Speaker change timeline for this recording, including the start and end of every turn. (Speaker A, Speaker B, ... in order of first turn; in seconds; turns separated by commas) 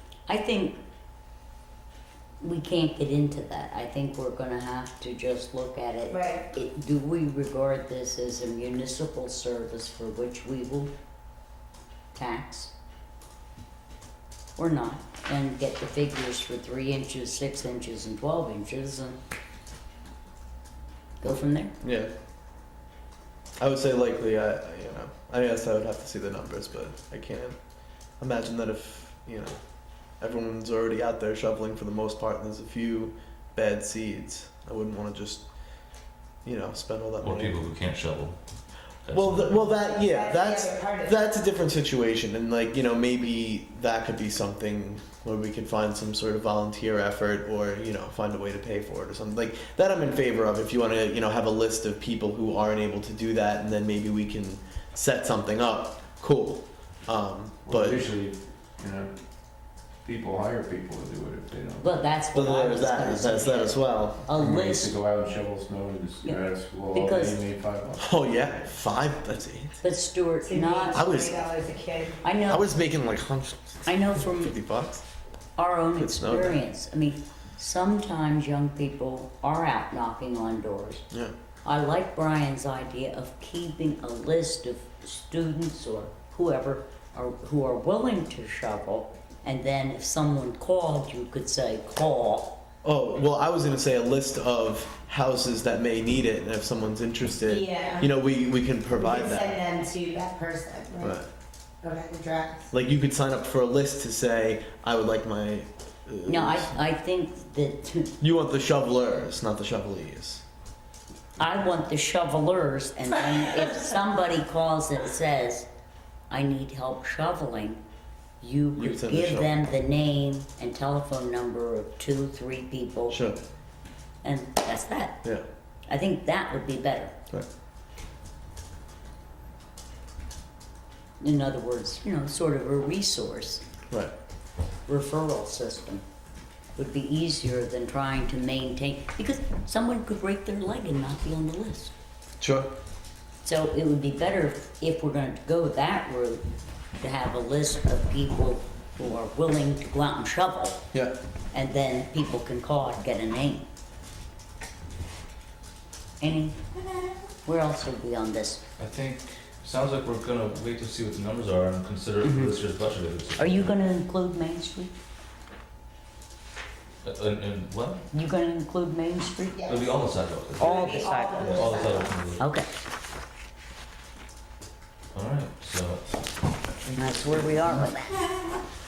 Speaker A: 0.3-0.8, Speaker A: 2.4-10.9, Speaker B: 6.1-6.5, Speaker A: 12.2-12.7, Speaker A: 14.6-19.2, Speaker A: 21.2-21.7, Speaker C: 21.8-22.1, Speaker C: 23.6-27.6, Speaker C: 28.2-29.6, Speaker C: 30.2-35.5, Speaker C: 36.4-37.6, Speaker D: 37.2-39.6, Speaker C: 39.1-58.0, Speaker B: 39.8-41.2, Speaker E: 57.7-62.1, Speaker A: 61.8-65.0, Speaker C: 62.3-64.3, Speaker E: 64.3-68.1, Speaker A: 66.2-67.4, Speaker C: 68.0-69.8, Speaker A: 69.8-71.0, Speaker B: 70.4-72.2, Speaker C: 70.9-71.5, Speaker A: 72.2-72.7, Speaker C: 72.5-75.0, Speaker A: 73.8-74.5, Speaker A: 75.6-81.0, Speaker C: 76.0-76.6, Speaker A: 81.7-92.5, Speaker C: 92.8-99.6, Speaker B: 97.5-98.1, Speaker B: 99.0-101.2, Speaker C: 101.0-101.3, Speaker B: 101.8-102.7, Speaker C: 102.7-106.7, Speaker A: 106.3-108.1, Speaker C: 108.2-110.4, Speaker A: 111.4-115.7, Speaker A: 116.3-117.8, Speaker A: 118.4-123.2, Speaker C: 118.8-119.6, Speaker C: 123.1-123.4, Speaker A: 124.2-125.2, Speaker A: 125.9-127.1, Speaker A: 131.2-133.6, Speaker A: 134.9-136.0, Speaker A: 136.8-141.9, Speaker C: 142.4-142.8, Speaker A: 143.4-146.4, Speaker A: 147.0-150.8, Speaker A: 151.5-153.7, Speaker A: 156.2-156.6, Speaker A: 157.4-158.6, Speaker D: 158.8-163.7, Speaker A: 162.2-162.6, Speaker A: 163.4-164.9, Speaker D: 167.0-168.0, Speaker A: 168.1-169.7, Speaker B: 169.5-172.3, Speaker D: 169.7-172.4, Speaker A: 170.6-171.6, Speaker A: 172.4-172.7, Speaker D: 175.1-176.2, Speaker D: 176.8-177.9, Speaker A: 177.0-178.2